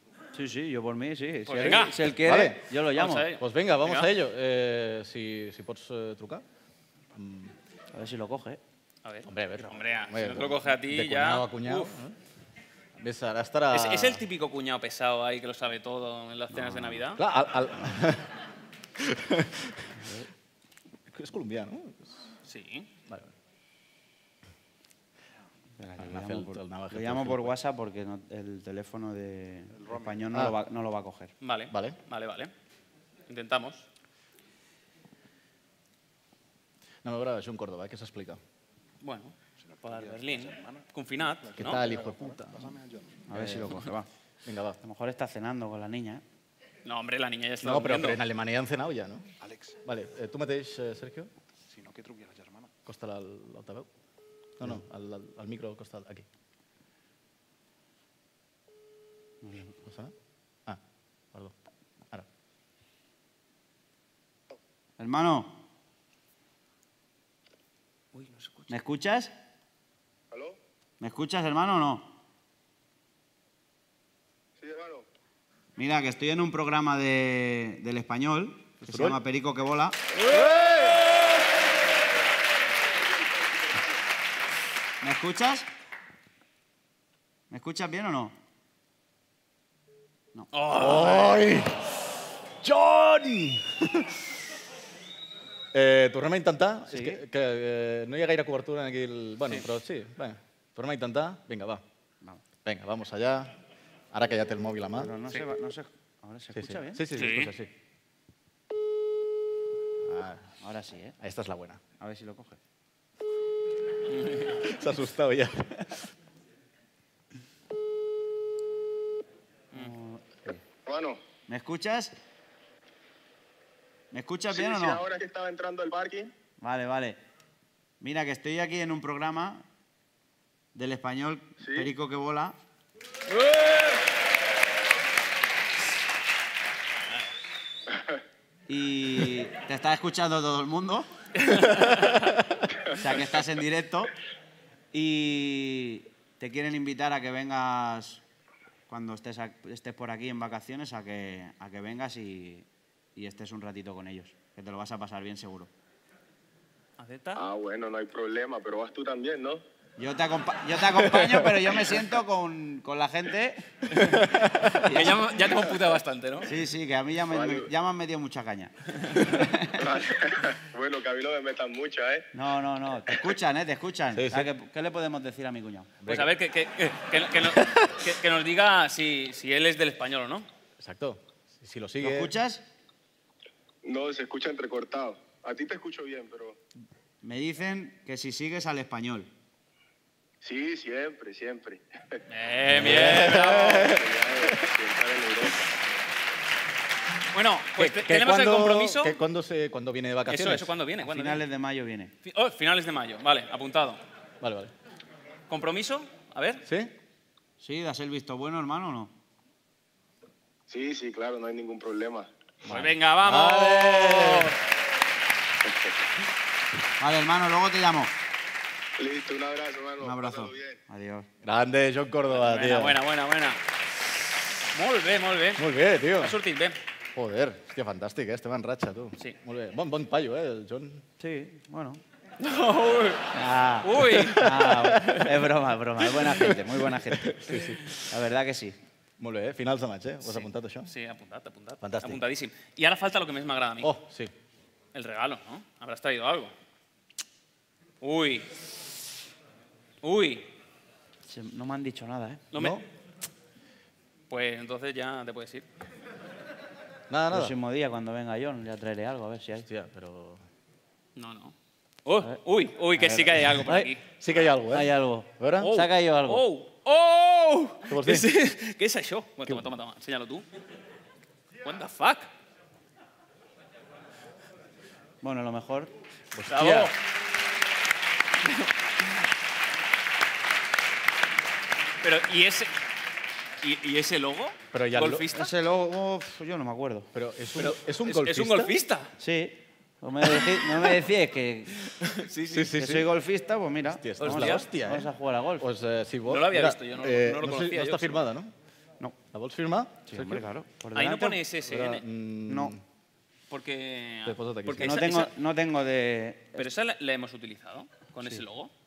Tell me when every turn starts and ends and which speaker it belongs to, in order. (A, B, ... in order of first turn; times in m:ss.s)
0:00.3-0:03.3 A
0:01.5-0:02.0 B
0:01.5-0:02.7 C
0:02.9-0:04.1 B
0:03.3-0:06.4 C
0:07.1-0:07.5 C
0:07.9-0:08.6 A
0:09.0-0:11.9 B
0:09.2-0:12.1 C
0:13.0-0:14.2 C
0:13.7-0:17.2 B
0:16.5-0:18.3 C
0:19.0-0:19.9 C
0:20.0-0:20.3 A
0:21.1-0:22.2 C
0:22.4-0:22.9 B
0:25.8-0:31.3 A
0:26.0-0:27.6 C
0:29.7-0:30.2 D
0:31.4-0:32.5 B
0:31.7-0:32.0 C
0:33.3-0:33.8 B
0:37.0-0:38.4 C
0:39.0-0:41.8 B
0:39.6-0:43.2 D
0:41.6-0:42.7 C
0:43.3-0:44.1 A
0:43.3-0:43.8 C
0:44.4-0:44.8 C
0:44.8-0:46.2 A
0:46.8-0:48.2 B
0:47.6-0:49.3 C
0:49.4-0:49.8 D
0:49.8-0:51.3 C
0:51.7-0:52.7 D
0:52.8-0:53.9 C
0:54.6-0:56.2 C
0:59.4-0:59.7 A
0:59.8-1:00.1 C
1:05.0-1:05.6 A
1:08.1-1:08.8 B
1:08.7-1:09.3 A
1:10.3-1:10.6 E
1:11.0-1:12.1 A
1:14.6-1:15.0 E
1:15.8-1:20.0 A
1:18.9-1:19.2 C
1:20.2-1:21.0 C
1:22.9-1:23.9 E
1:25.0-1:25.7 A
1:27.5-1:28.3 A
1:30.5-1:31.4 B
1:30.7-1:32.0 C
1:32.6-1:34.2 C
1:35.7-1:41.8 C
1:36.9-1:37.2 A
1:42.6-1:43.6 C
1:44.1-1:45.1 C
1:45.0-1:47.0 A
1:46.5-1:47.7 C
1:47.1-1:47.5 B
1:50.0-1:50.5 C
1:50.6-1:51.2 A
1:51.2-1:51.8 C
1:52.0-1:52.6 A
1:54.6-1:56.0 C
1:59.7-2:00.6 A
2:00.8-2:01.2 E
2:01.5-2:02.1 A
2:04.1-2:05.0 A
2:04.5-2:06.3 E
2:06.6-2:07.2 A
2:08.0-2:09.6 A
2:10.7-2:12.5 A
2:11.6-2:11.9 E
2:18.7-2:21.1 A
2:21.4-2:22.2 B
2:22.9-2:24.1 A
2:24.9-2:28.2 A
2:28.9-2:35.7 A
2:37.0-2:37.4 B
2:37.4-2:39.6 E
2:40.0-2:43.6 A
2:44.1-2:44.7 C
2:44.8-2:45.2 A
2:44.9-2:46.5 B
2:46.4-2:48.7 A
2:47.3-2:47.7 E
2:49.3-2:49.8 A
2:49.8-2:52.3 E
2:52.3-2:55.9 A
2:54.1-2:54.5 C
2:56.0-2:56.3 C
2:56.1-3:00.4 B
2:57.6-2:57.9 C
3:00.8-3:02.3 C
3:02.0-3:02.6 A
3:03.8-3:06.6 E
3:07.2-3:09.3 A
3:10.4-3:11.8 E
3:12.3-3:13.9 B
3:12.7-3:14.7 C
3:13.8-3:15.7 E
3:17.3-3:19.2 B
3:17.8-3:20.7 C
3:20.3-3:21.4 B
3:21.0-3:22.1 A
3:22.2-3:24.0 B
3:24.4-3:24.7 C
3:25.5-3:26.6 B
3:26.6-3:26.9 C
3:27.6-3:29.1 A
3:30.7-3:32.3 E
3:32.7-3:34.5 C
3:32.7-3:34.5 B
3:35.6-3:36.0 E
3:37.0-3:38.1 A
3:39.0-3:40.8 E
3:40.0-3:41.3 A
3:41.4-3:43.0 C
3:42.3-3:43.6 B
3:44.7-3:45.6 B
3:45.6-3:46.4 C
3:46.2-3:46.8 B
3:47.1-3:51.0 C
3:51.2-3:52.0 A
3:52.4-3:54.5 B
3:53.3-3:57.5 A
3:54.0-3:55.2 C
3:56.1-3:57.9 C
3:58.1-3:58.7 A
3:59.2-4:00.9 C
4:00.2-4:03.9 B
4:01.8-4:02.2 C
4:03.8-4:04.3 C
4:04.9-4:06.5 B
4:08.0-4:08.5 B
4:10.0-4:10.5 B
4:11.3-4:12.4 A
4:12.5-4:12.8 B
4:12.5-4:12.8 C
4:14.3-4:15.6 B
4:17.1-4:17.5 C
4:17.3-4:19.7 A
4:19.7-4:20.4 C
4:21.2-4:21.5 B
4:22.0-4:24.0 B
4:23.0-4:25.8 C
4:24.7-4:26.4 A
4:25.6-4:30.4 B
4:27.9-4:28.3 C
4:31.6-4:32.3 B
4:35.2-4:35.9 A
4:36.3-4:36.9 C
4:36.5-4:37.0 B
4:42.0-4:42.7 B
4:43.6-4:45.5 B
4:44.7-4:45.3 C
4:45.3-4:47.1 A
4:47.1-4:48.7 C
4:47.6-4:49.1 B
4:49.2-4:51.8 A
4:52.0-4:52.7 B
4:52.5-4:53.1 C
4:52.7-4:55.6 A
4:53.9-4:58.5 C
4:54.2-4:54.6 B
4:56.3-4:58.2 B
4:59.3-5:00.5 C
5:00.0-5:01.4 A
5:00.9-5:02.0 B
5:01.6-5:02.8 C
5:02.5-5:02.8 A
5:03.5-5:05.3 B
5:04.2-5:05.0 C
5:04.8-5:06.7 A
5:06.6-5:08.7 B